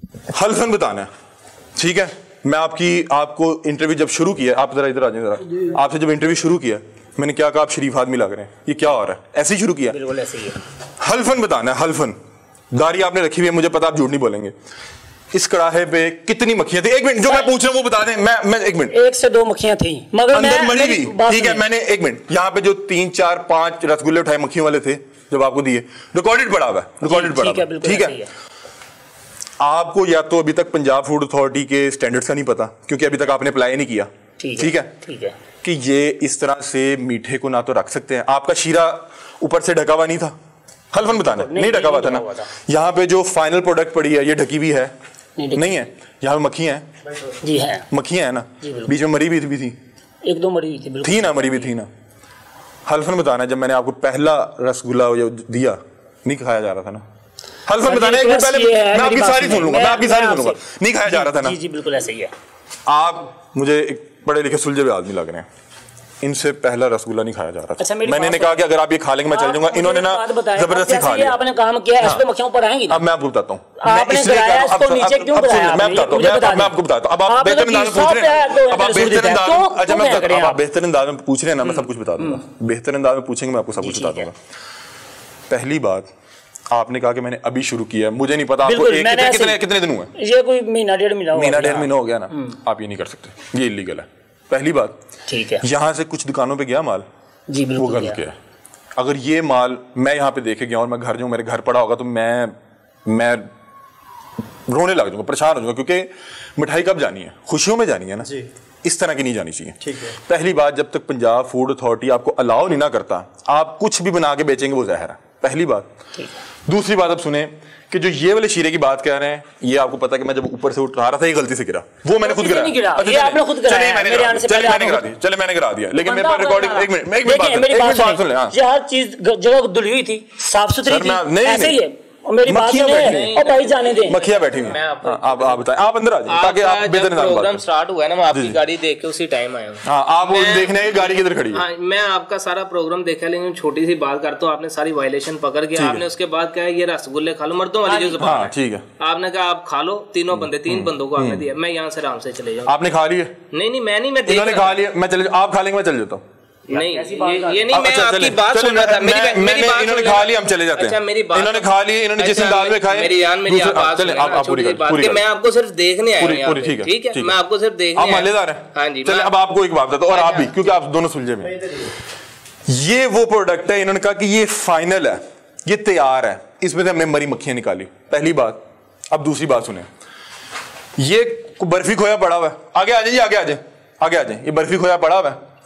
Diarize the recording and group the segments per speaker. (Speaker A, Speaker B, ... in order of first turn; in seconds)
Speaker A: 0.3-1.1, 1.8-10.0, 11.0-12.2, 12.7-14.5, 15.3-18.9, 20.3-28.2, 29.6-34.9, 35.6-40.3, 40.9-44.9, 45.5-46.9, 47.9-49.8, 51.0-51.9, 52.9-57.0, 57.7-61.6, 62.9-65.5, 66.2-71.4, 72.9-84.3, 85.5-86.1, 86.7-90.1, 91.3-95.0, 95.6-97.0, 97.8-98.4, 99.0-102.5, 103.0-103.5, 104.7-115.9, 116.7-128.6, 130.8-131.8, 132.4-133.4, 134.1-137.6, 138.3-138.6, 139.8-141.6, 145.7-146.0, 148.2-148.8, 150.3-151.4, 152.6-153.4, 154.2-156.2, 157.7-165.3, 166.2-167.4, 167.9-171.9, 172.7-179.9, 181.0-185.4
Speaker B: 9.9-10.6, 18.9-21.6, 27.0-28.3, 34.4-35.4, 41.1-42.5, 45.4-45.7, 47.4-47.8, 48.6-48.9, 50.2-51.7, 57.8-62.3, 67.8-68.7, 69.3-73.0, 73.8-80.6, 81.7-82.4, 83.8-84.3, 88.6-89.6, 90.1-92.5, 95.3-95.7, 97.5-98.2, 122.2-125.1, 126.0-134.2, 147.9-148.2, 156.7-157.7
Speaker C: 132.9-135.6, 136.3-152.7, 153.5-154.8, 156.7-169.3, 170.1-170.6